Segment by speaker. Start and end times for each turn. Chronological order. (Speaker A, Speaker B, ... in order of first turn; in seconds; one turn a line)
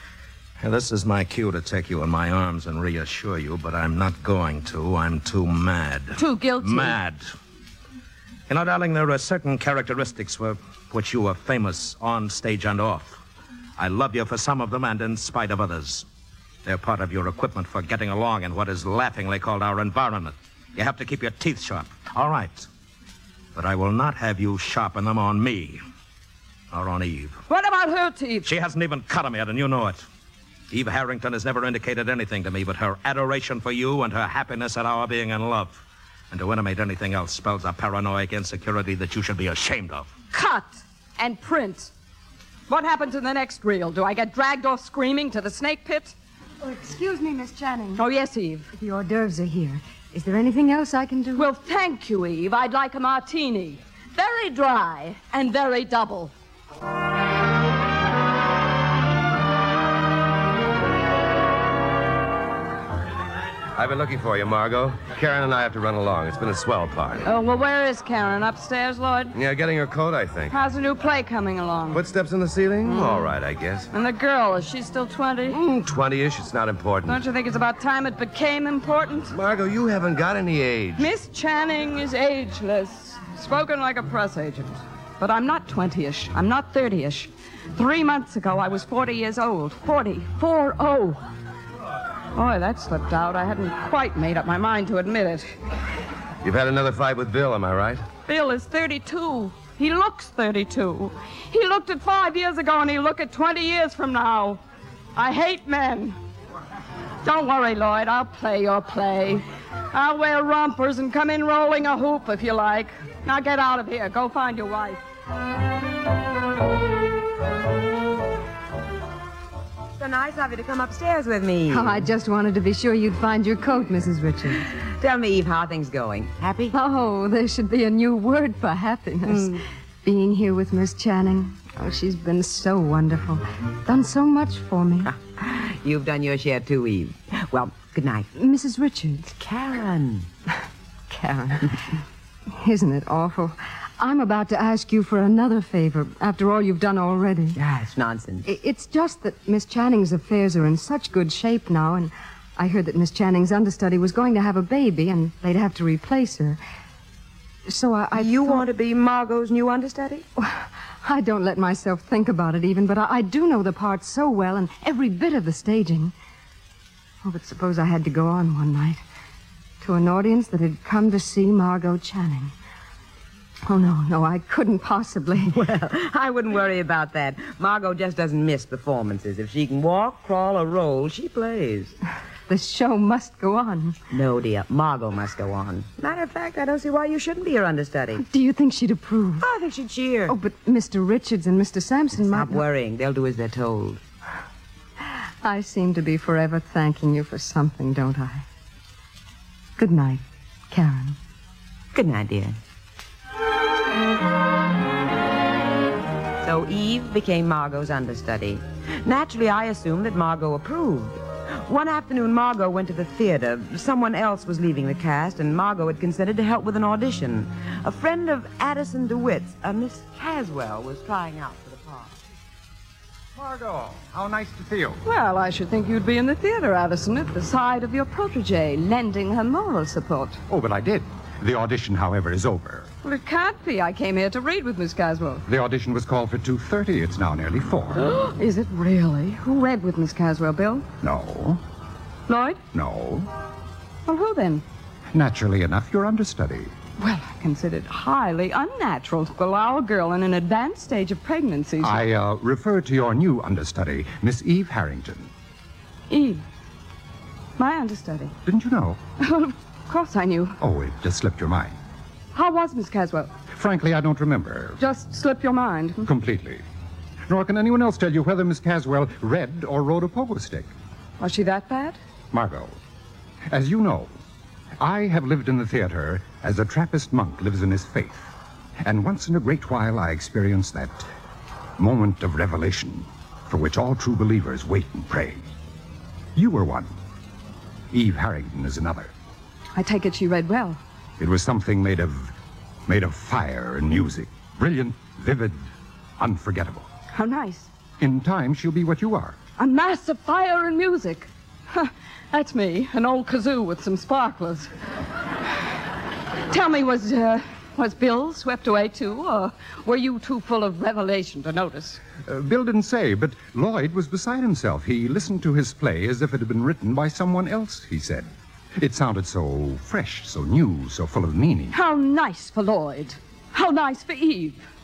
Speaker A: 0.6-7.3
Speaker B: 6.2-7.0
Speaker A: 8.5-13.2
Speaker A: 13.8-16.1
Speaker A: 16.6-22.7
Speaker A: 23.6-25.8
Speaker A: 26.7-27.4
Speaker B: 27.5-28.5
Speaker A: 28.4-30.0
Speaker A: 30.7-40.1
Speaker B: 40.3-41.9
Speaker B: 42.7-46.1
Speaker C: 46.6-48.0
Speaker B: 48.0-48.7
Speaker C: 48.7-51.5
Speaker B: 51.4-56.3
Speaker D: 63.8-67.3
Speaker B: 67.2-69.3
Speaker D: 69.3-70.6
Speaker B: 70.5-72.0
Speaker D: 71.9-73.9
Speaker B: 72.8-73.3
Speaker B: 73.9-75.7
Speaker D: 75.5-77.2
Speaker B: 77.0-79.3
Speaker D: 79.3-81.1
Speaker B: 81.0-91.2
Speaker B: 92.3-95.5
Speaker D: 96.4-98.0
Speaker B: 98.3-104.6
Speaker B: 105.2-106.2
Speaker B: 107.2-115.0
Speaker E: 120.0-122.1
Speaker C: 121.7-124.7
Speaker E: 125.0-126.7
Speaker C: 126.7-135.1
Speaker E: 129.3-129.6
Speaker E: 135.1-138.3
Speaker C: 138.3-139.3
Speaker E: 139.3-140.3
Speaker C: 141.1-141.8
Speaker C: 142.6-147.6
Speaker E: 147.6-148.5
Speaker C: 148.4-156.6
Speaker C: 157.7-158.7
Speaker E: 158.1-160.2
Speaker C: 160.4-166.1
Speaker C: 167.2-169.0
Speaker C: 169.8-172.5
Speaker C: 173.7-175.5
Speaker E: 175.5-181.9
Speaker C: 182.5-184.0
Speaker E: 184.1-188.2
Speaker C: 188.2-189.5
Speaker E: 189.4-190.4
Speaker C: 190.3-192.6
Speaker E: 192.2-194.0
Speaker C: 195.4-198.4
Speaker C: 199.8-201.2
Speaker E: 201.9-202.6
Speaker E: 206.4-222.2
Speaker F: 223.4-225.0
Speaker B: 225.0-230.4
Speaker F: 230.5-232.9
Speaker B: 233.0-235.4
Speaker F: 235.5-238.1
Speaker B: 237.9-240.9
Speaker F: 241.0-241.6
Speaker B: 242.3-242.6
Speaker F: 242.7-243.3
Speaker B: 244.1-244.6
Speaker F: 245.1-246.7
Speaker B: 247.0-252.0
Speaker F: 251.8-255.3
Speaker B: 256.1-256.4
Speaker B: 257.6-258.3
Speaker F: 258.5-259.0
Speaker B: 259.2-260.6
Speaker F: 260.6-261.8
Speaker B: 262.3-263.3
Speaker F: 263.5-264.8
Speaker B: 264.8-266.1
Speaker F: 266.1-266.6
Speaker F: 267.3-270.7
Speaker B: 271.2-272.0
Speaker F: 272.3-272.8
Speaker F: 273.5-274.1
Speaker F: 274.8-278.3
Speaker F: 278.8-281.1
Speaker F: 281.8-285.5
Speaker F: 286.4-286.9
Speaker F: 287.9-289.1
Speaker B: 289.8-290.8
Speaker F: 291.2-292.3
Speaker F: 292.9-295.7
Speaker F: 296.2-296.9
Speaker B: 297.1-297.7
Speaker F: 298.0-299.4
Speaker B: 299.6-304.7
Speaker B: 306.5-312.0
Speaker F: 312.2-321.8
Speaker B: 321.7-324.6